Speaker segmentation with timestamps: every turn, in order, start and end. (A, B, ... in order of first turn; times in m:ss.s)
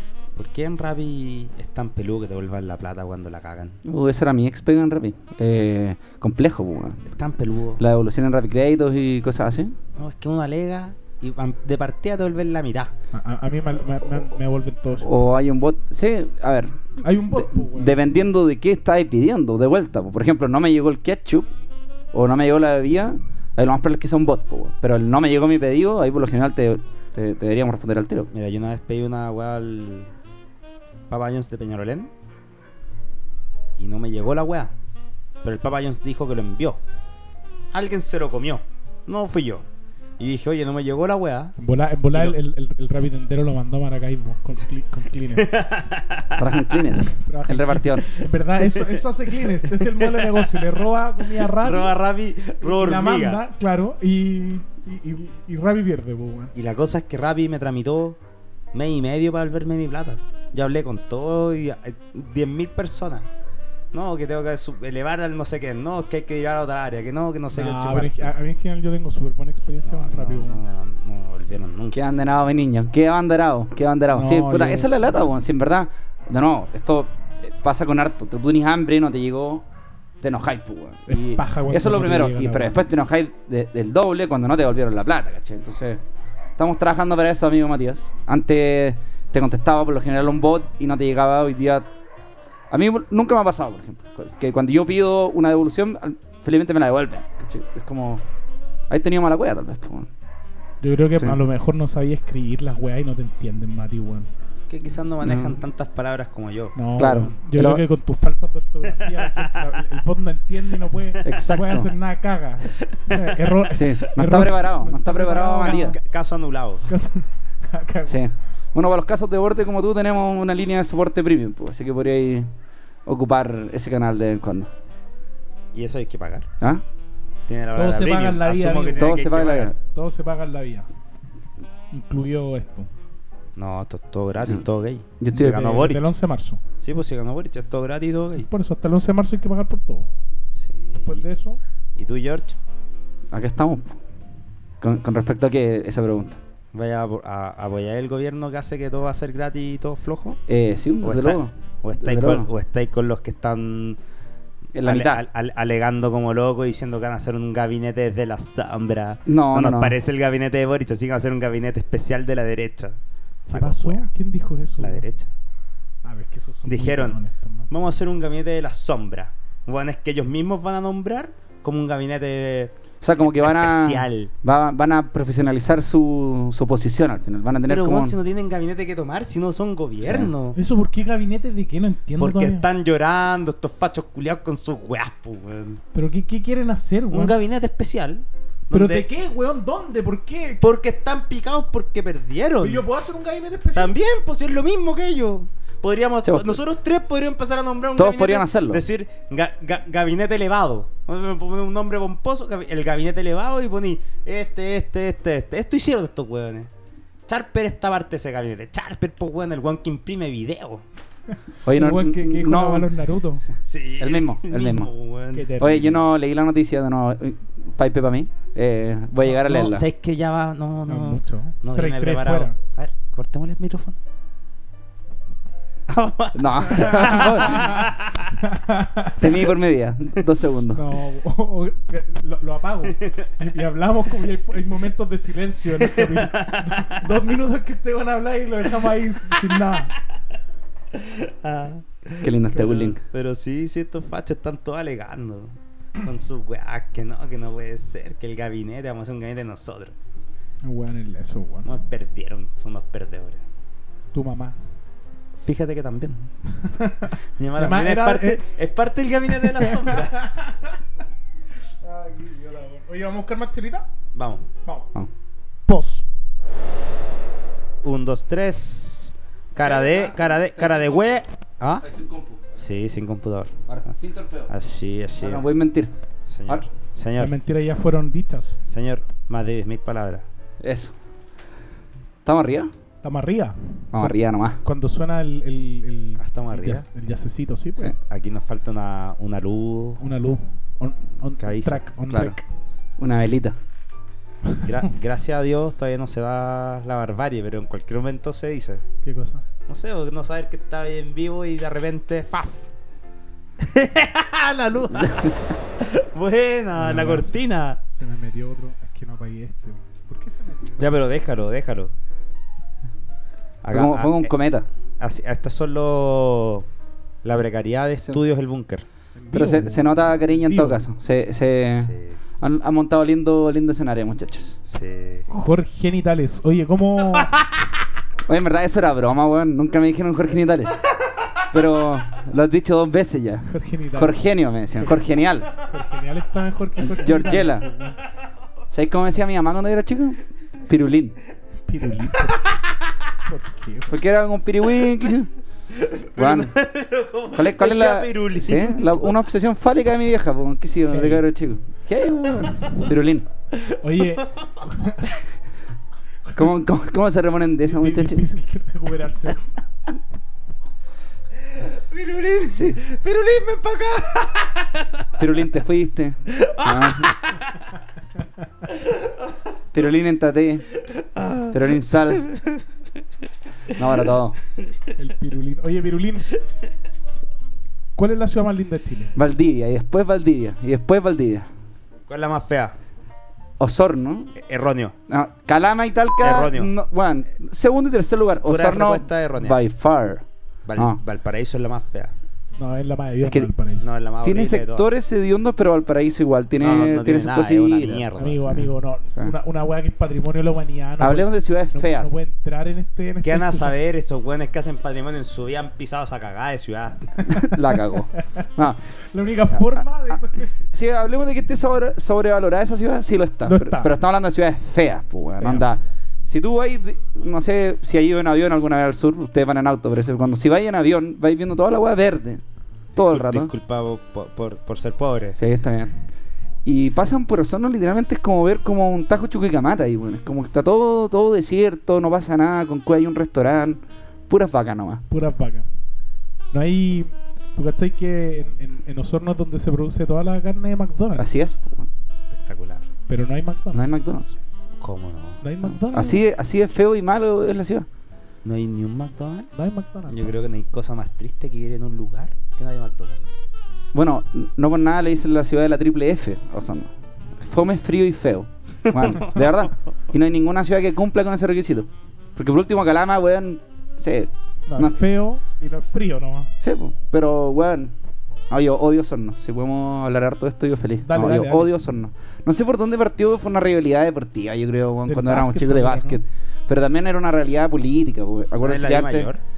0:00.4-0:03.8 A
0:03.8-0:07.0 B
0:07.0-0:07.8 A
0:07.8-0:09.7 B
0:10.0-0:12.9 A
0:13.1-0:15.2 C
0:15.0-0:16.8 B
0:17.0-0:18.0 C
0:17.3-0:21.5 B
0:22.1-0:28.3 B
0:28.3-0:30.1 A
0:31.1-0:32.1 A
0:33.8-0:34.7 A
0:35.4-0:36.8 A
0:37.7-0:39.6 A
0:40.2-0:41.5 A
0:41.6-0:45.5 C
0:45.3-0:46.8 A
0:46.4-0:48.1 B
0:47.0-0:51.9 C
0:48.6-0:53.4 A
0:52.6-0:56.5 C
0:56.5-0:58.2 A
0:58.7-1:03.3 A
1:03.9-1:08.3 A
1:07.5-1:10.6 C
1:09.8-1:12.0 A
1:11.9-1:19.6 B
1:14.1-1:14.9 C
1:20.2-1:26.0 B
1:21.1-1:22.8 C
1:26.6-1:31.9 B
1:32.7-1:38.2 B
1:38.9-1:40.1 B
1:40.8-1:44.3 C
1:44.7-1:46.8 A
1:45.2-1:45.6 B
1:46.8-1:56.0 C
1:47.0-1:47.8 B
1:49.0-1:49.8 A
1:51.2-1:51.9 B
1:53.7-1:56.0 B
1:55.6-1:56.9 A
1:56.9-1:58.2 C
1:58.1-2:02.5 B
2:03.0-2:04.7 B
2:05.7-2:06.5 A
2:07.5-2:09.7 A
2:07.7-2:09.2 C
2:09.0-2:09.8 B
2:09.8-2:10.9 C
2:11.9-2:12.9 C
2:13.6-2:16.1 A
2:15.2-2:15.8 B
2:15.3-2:16.6 C
2:16.8-2:18.5 A
2:18.4-2:20.1 C
2:20.5-2:21.2 A
2:21.0-2:21.6 C
2:22.0-2:22.6 A
2:23.3-2:23.9 B
2:24.8-2:26.4 B
2:26.7-2:30.4 A
2:30.5-2:32.5 B
2:31.0-2:34.0 A
2:34.7-2:35.2 B
2:34.8-2:44.1 A
2:39.2-2:40.0 B
2:43.5-2:45.0 C
2:44.8-2:45.3 A
2:46.0-2:47.7 C
2:46.6-2:47.2 A
2:47.7-2:52.7 A
2:53.0-2:58.2 B
2:53.3-2:54.3 A
2:57.7-3:00.6 A
3:00.0-3:00.3 B
3:00.5-3:02.6 C
3:02.2-3:05.8 A
3:05.9-3:07.4 C
3:07.1-3:09.1 A
3:08.7-3:10.7 C
3:10.6-3:12.8 A
3:12.6-3:13.9 C
3:13.7-3:26.7 A
3:16.2-3:16.6 B
3:18.0-3:18.8 B
3:27.3-3:30.8 A
3:31.6-3:33.0 B
3:31.6-3:33.4 C
3:33.6-3:35.5 A
3:34.0-3:34.9 B
3:35.3-3:36.0 C
3:35.6-3:39.8 B
3:39.2-3:44.0 A
3:40.8-3:42.6 C
3:45.9-3:48.4 A
3:46.3-3:47.9 B
3:46.8-3:49.4 C
3:49.2-3:50.8 B
3:50.7-4:00.0 C
3:52.9-3:53.3 A
3:55.8-3:57.1 A
4:00.9-4:10.0 A
4:02.2-4:03.0 B
4:10.6-4:11.7 C
4:11.6-4:13.4 A
4:14.1-4:14.6 C
4:15.4-4:16.3 A
4:16.6-4:18.4 C
4:17.3-4:20.3 A
4:19.4-4:20.8 C
4:21.8-4:23.9 C
4:24.1-4:24.5 A
4:25.7-4:26.0 C
4:27.8-4:31.8 A
4:29.6-4:31.2 B
4:31.8-4:32.4 B
4:32.5-4:33.5 A
4:33.7-4:34.5 B
4:34.5-4:35.4 A
4:35.2-4:35.9 B
4:36.3-4:37.3 A
4:37.2-4:38.6 C
4:38.6-4:40.2 A
4:40.6-4:40.9 B
4:42.2-4:42.7 B
4:43.0-4:47.9 C
4:43.9-4:44.6 B
4:46.2-4:46.8 A
4:48.0-4:50.0 A
4:50.0-4:52.4 C
4:51.4-4:51.8 A
4:52.1-4:52.4 B
4:53.0-4:53.6 B
4:54.6-4:58.8 A
4:59.0-4:59.4 C
4:59.7-5:02.7 A
5:03.6-5:07.8 A
5:06.8-5:07.3 C
5:07.9-5:10.9 C
5:10.8-5:11.9 A
5:13.6-5:14.3 A
5:13.7-5:14.7 B
5:15.0-5:16.6 A
5:17.2-5:18.8 A
5:19.1-5:20.8 C
5:19.3-5:24.6 B
5:21.8-5:22.2 A
5:24.6-5:25.3 A
5:25.3-5:27.4 C
5:28.3-5:30.8 B
5:31.5-5:35.5 B
5:33.4-5:34.2 C
5:35.6-5:38.0 C
5:36.8-5:37.7 B
5:38.7-5:41.1 B
5:41.7-5:42.5 C
5:43.2-5:44.0 C
5:43.9-5:45.3 B
5:45.7-5:49.2 A
5:46.2-5:46.5 B
5:47.3-5:53.3 B
5:50.9-5:51.2 C
5:53.5-5:54.6 A
5:53.8-5:55.1 C
5:56.3-5:58.2 B
5:57.6-5:59.5 C
6:01.5-6:05.0 A
6:05.2-6:07.2 B
6:06.3-6:07.6 A
6:08.7-6:09.2 A
6:09.7-6:10.7 B
6:10.8-6:12.6 A
6:11.5-6:12.3 B
6:13.7-6:14.4 B
6:15.0-6:16.4 C
6:18.0-6:19.1 C
6:19.1-6:21.5 B
6:22.1-6:22.7 A
6:23.6-6:24.3 B
6:24.4-6:24.9 A
6:25.1-6:30.2 B
6:26.2-6:26.7 A
6:28.4-6:29.6 A
6:30.6-6:32.1 A
6:32.6-6:33.9 C
6:33.2-6:33.5 B
6:33.8-6:34.9 A
6:34.2-6:38.0 B
6:36.6-6:38.5 A
6:38.2-6:43.7 C
6:41.0-6:42.1 B
6:43.2-6:47.0 A
6:47.2-6:48.8 B
6:47.3-6:47.6 C
6:48.2-6:48.5 C
6:49.1-6:50.6 C
6:49.5-7:02.4 B
6:53.4-6:53.9 C
6:55.4-6:55.7 C
7:02.9-7:03.5 B
7:03.0-7:05.4 A
7:05.4-7:05.9 B
7:06.6-7:15.0 B
7:15.1-7:15.7 C
7:16.5-7:21.3 C
7:21.2-7:21.9 B
7:22.3-7:22.9 A
7:23.1-7:23.9 C
7:23.7-7:24.3 B
7:24.8-7:25.4 A
7:25.4-7:26.2 C
7:25.6-7:27.9 B
7:28.4-7:29.5 A
7:29.5-7:30.4 C
7:30.1-7:33.2 A
7:33.9-7:36.9 B
7:37.4-7:45.0 B
7:38.9-7:39.4 A
7:44.7-7:46.5 C
7:46.6-7:47.9 B
7:48.5-7:59.3 B
7:51.0-7:51.7 C
7:55.1-7:56.2 C
7:58.6-7:59.4 A